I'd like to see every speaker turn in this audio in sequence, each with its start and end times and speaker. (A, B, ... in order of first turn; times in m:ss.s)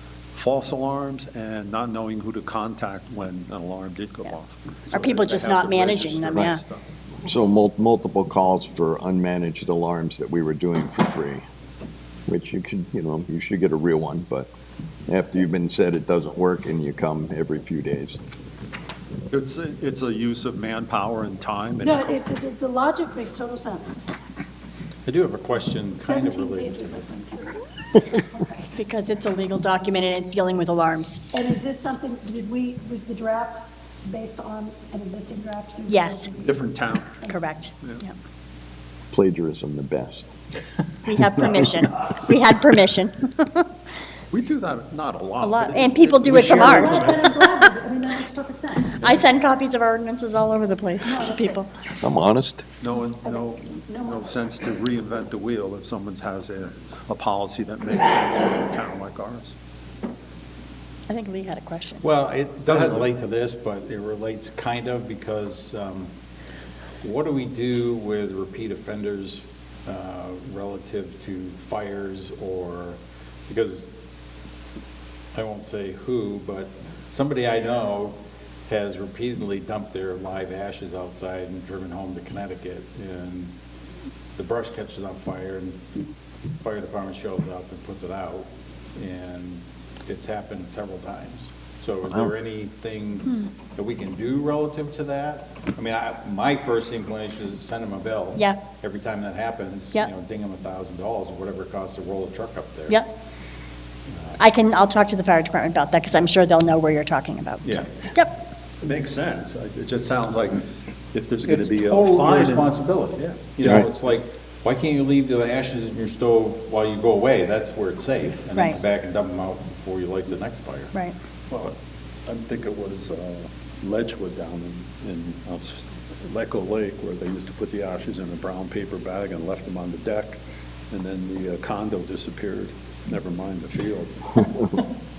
0:00.3-0:06.9 A
0:04.9-0:06.6 B
0:07.2-0:11.4 C
0:12.3-0:14.5 C
0:15.1-0:18.2 C
0:19.3-0:22.2 A
0:21.8-0:24.0 D
0:25.1-0:27.1 E
0:26.0-0:28.8 D
0:28.8-0:31.2 B
0:31.3-0:36.6 D
0:35.9-0:36.3 B
0:36.4-0:37.2 A
0:37.2-0:38.2 B
0:39.1-0:40.3 C
0:41.0-0:43.7 B
0:44.3-0:47.4 A
0:45.4-0:47.3 B
0:46.3-0:46.8 E
0:46.6-0:49.0 D
0:49.0-0:51.7 B
0:51.0-0:51.6 D
0:52.0-0:52.6 C
0:52.8-0:59.6 A
0:53.9-0:54.2 D
1:01.1-1:02.1 B
1:02.0-1:06.1 E
1:07.0-1:13.9 E
1:15.3-1:18.2 E
1:18.7-1:23.5 E
1:24.4-1:25.8 E
1:26.6-1:43.0 E
1:44.4-1:48.4 B
1:47.6-1:47.9 A
1:48.8-1:53.6 A
1:51.4-2:00.9 E
1:53.6-1:53.9 C
2:01.5-2:01.8 A
2:02.3-2:10.4 A
2:10.9-2:14.4 A